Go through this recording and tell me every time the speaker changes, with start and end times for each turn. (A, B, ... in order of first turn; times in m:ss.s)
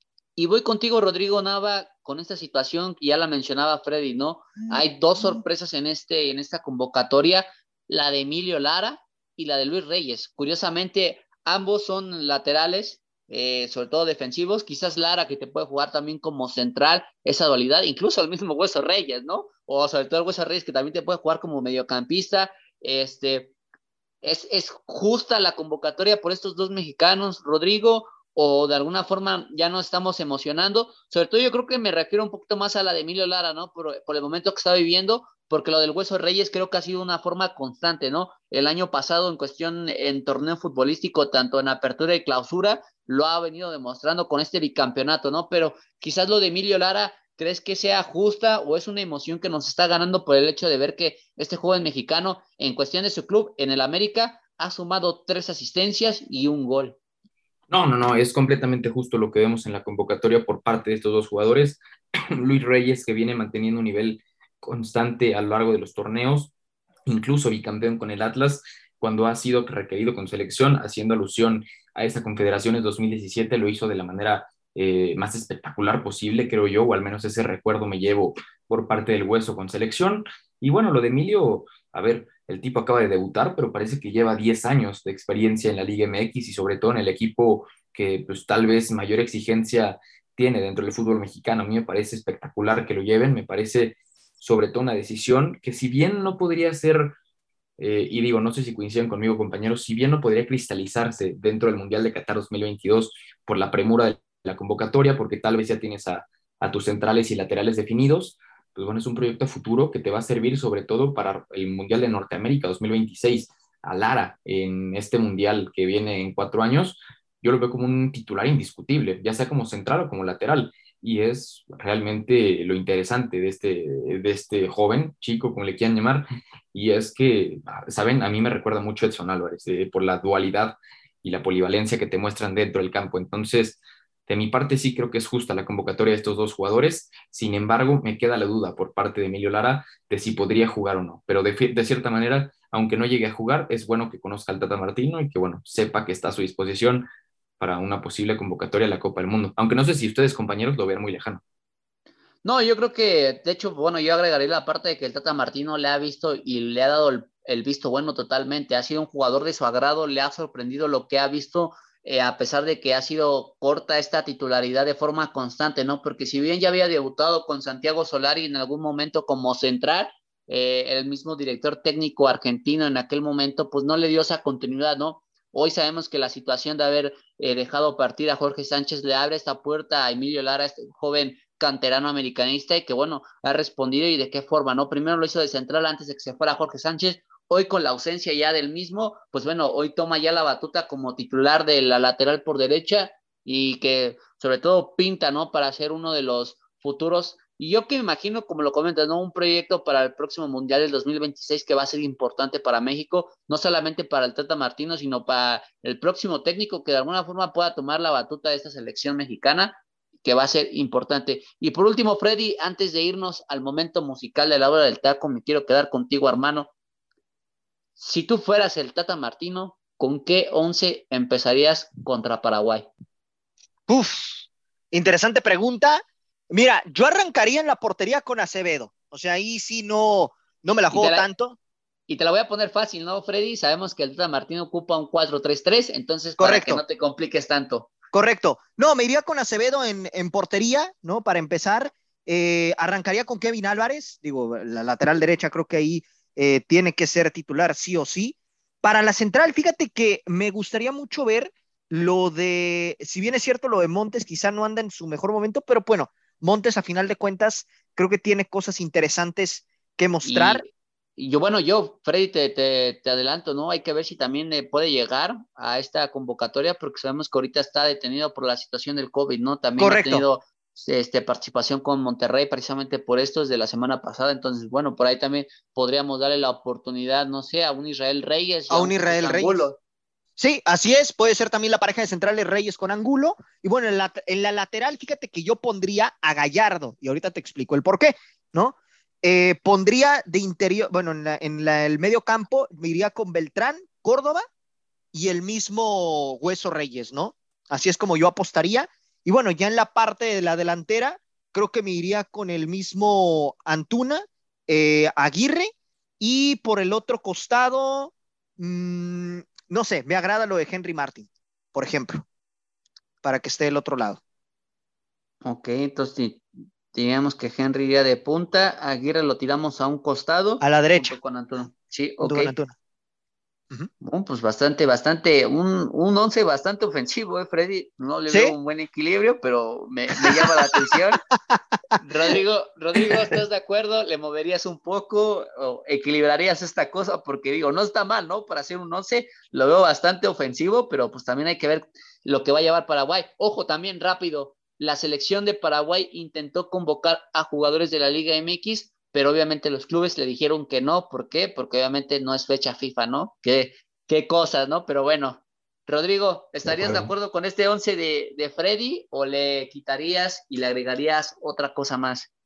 0:00.4-0:23.5 A
0:24.2-0:57.0 A
0:57.7-1:06.5 B
1:07.1-1:37.2 B
1:37.8-2:27.1 B
2:27.6-2:31.4 B
2:32.4-3:36.7 A
3:38.0-3:42.9 A
3:43.9-3:51.6 C
3:50.9-3:51.3 A
3:52.1-3:57.9 A
3:56.4-3:56.8 C
3:58.1-4:20.6 C
4:20.2-4:39.8 A
4:29.8-4:30.2 C
4:38.7-4:39.7 C
4:40.4-4:54.4 C
4:55.1-5:12.3 C
5:13.2-5:14.2 C
5:15.4-5:22.5 A
5:20.6-5:21.2 C
5:22.2-5:22.8 C
5:24.0-5:31.2 A
5:28.3-5:28.5 C
5:30.2-5:30.5 C
5:31.5-5:32.0 C
5:32.0-6:02.3 A
5:33.0-5:33.3 C
5:56.7-5:57.1 B